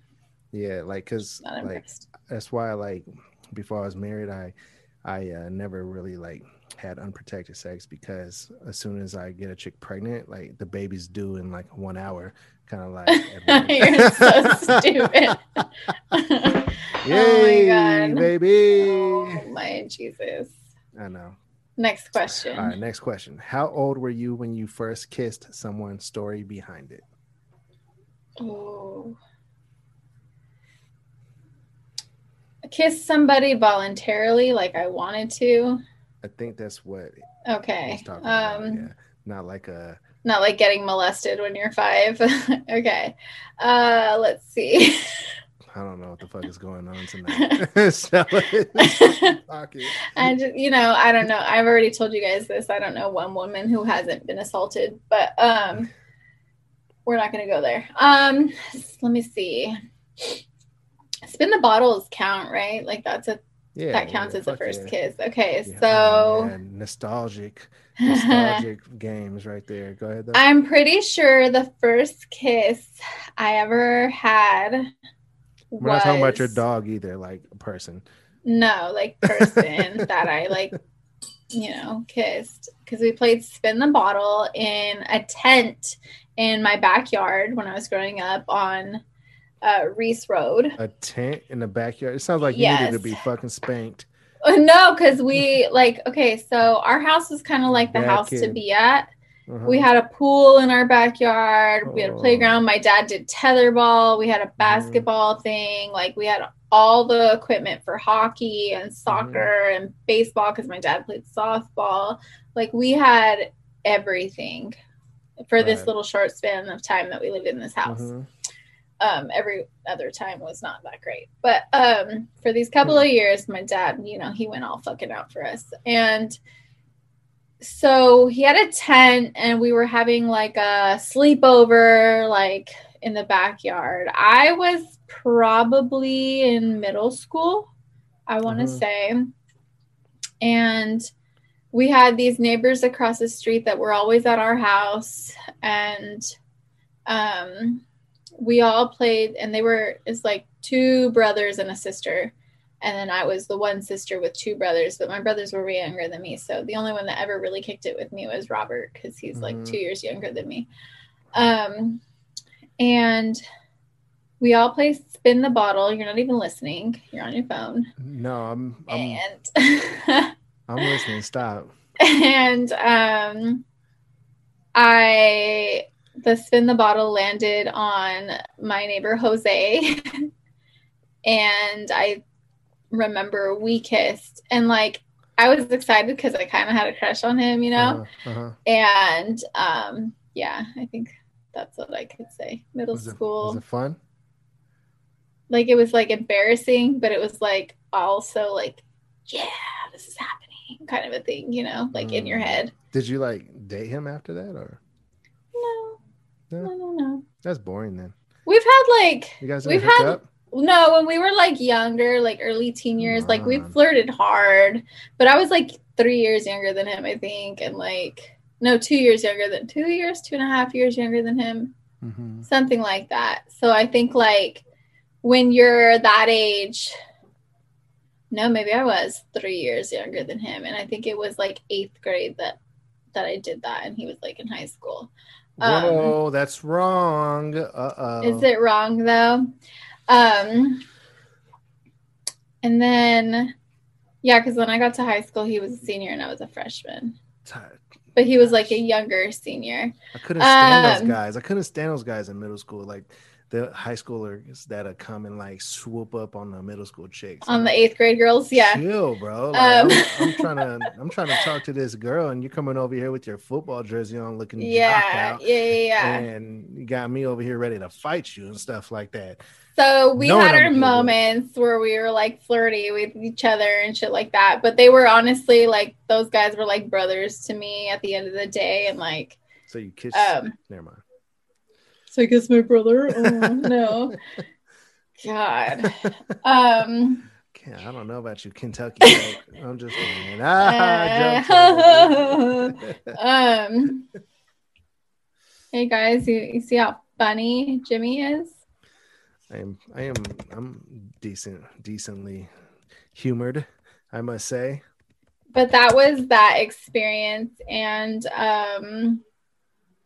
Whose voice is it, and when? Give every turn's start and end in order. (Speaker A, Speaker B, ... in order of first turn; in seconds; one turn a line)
Speaker A: 0.5-16.2
Speaker B: 1.4-2.1
Speaker B: 13.1-15.4
Speaker B: 16.1-18.3
Speaker A: 17.0-19.4
Speaker B: 18.8-20.6
Speaker A: 20.9-21.4
Speaker B: 21.8-22.7
Speaker A: 22.3-27.0
Speaker B: 28.4-29.2
Speaker B: 32.6-35.8
Speaker A: 36.2-37.2
Speaker B: 37.5-38.9
Speaker A: 37.9-40.0
Speaker B: 40.2-45.3
Speaker A: 45.7-50.3
Speaker B: 47.3-47.6
Speaker B: 48.8-49.4
Speaker B: 50.0-55.9
Speaker B: 57.0-60.4
Speaker B: 61.2-63.4
Speaker A: 63.7-64.9
Speaker B: 63.9-66.5
Speaker A: 65.7-70.4
Speaker B: 68.0-68.6
Speaker B: 70.3-74.9
Speaker B: 75.7-76.6
Speaker A: 75.8-78.0
Speaker B: 78.4-80.8
Speaker A: 79.2-80.1
Speaker B: 81.5-89.0
Speaker B: 89.6-90.8
Speaker A: 90.8-94.1
Speaker B: 92.5-93.2
Speaker B: 94.4-99.1
Speaker A: 97.7-98.6
Speaker A: 99.5-99.9
Speaker B: 99.6-114.8
Speaker A: 101.9-102.6
Speaker A: 104.6-105.1
Speaker A: 109.1-109.5
Speaker B: 115.4-118.1
Speaker A: 115.6-115.9
Speaker A: 117.8-118.2
Speaker B: 119.0-126.4
Speaker B: 127.6-137.7
Speaker B: 138.3-139.3
Speaker A: 138.4-138.8
Speaker B: 140.4-141.1
Speaker B: 141.7-146.3
Speaker B: 147.1-147.8
Speaker B: 148.4-160.7
Speaker A: 159.3-159.8
Speaker B: 161.3-162.0
Speaker B: 162.8-163.4
Speaker B: 164.4-167.9
Speaker A: 168.0-169.2
Speaker B: 168.9-170.9
Speaker A: 170.7-171.7
Speaker B: 172.0-173.6
Speaker B: 174.8-180.2
Speaker B: 181.2-182.2
Speaker B: 182.9-188.0
Speaker A: 187.8-188.6
Speaker B: 188.7-193.6
Speaker A: 192.9-194.0
Speaker B: 195.5-202.7
Speaker A: 201.9-204.8
Speaker B: 205.5-206.0
Speaker B: 206.6-207.2
Speaker A: 207.4-208.1
Speaker B: 208.4-221.7
Speaker A: 209.4-210.2
Speaker A: 213.0-213.7
Speaker A: 222.0-222.5
Speaker B: 222.5-224.6
Speaker B: 225.2-226.9
Speaker B: 228.3-232.6
Speaker B: 233.1-236.1
Speaker A: 235.6-238.5
Speaker B: 238.2-239.5
Speaker B: 240.1-240.8
Speaker B: 242.6-243.5
Speaker B: 244.2-247.2
Speaker A: 247.4-247.8
Speaker B: 248.2-251.2
Speaker A: 248.4-248.8
Speaker A: 250.1-257.8
Speaker B: 257.4-258.8
Speaker A: 258.6-265.4
Speaker B: 259.5-260.9
Speaker B: 264.6-266.2
Speaker A: 266.0-269.4
Speaker B: 269.8-279.4
Speaker A: 270.1-271.2
Speaker A: 279.7-281.0
Speaker B: 280.1-280.5
Speaker B: 282.1-284.2
Speaker A: 283.1-284.2
Speaker B: 285.2-287.3
Speaker A: 285.8-286.3
Speaker A: 287.5-293.1
Speaker B: 290.6-294.1
Speaker B: 295.7-298.6
Speaker A: 299.5-302.5
Speaker A: 303.1-304.8
Speaker B: 305.5-309.2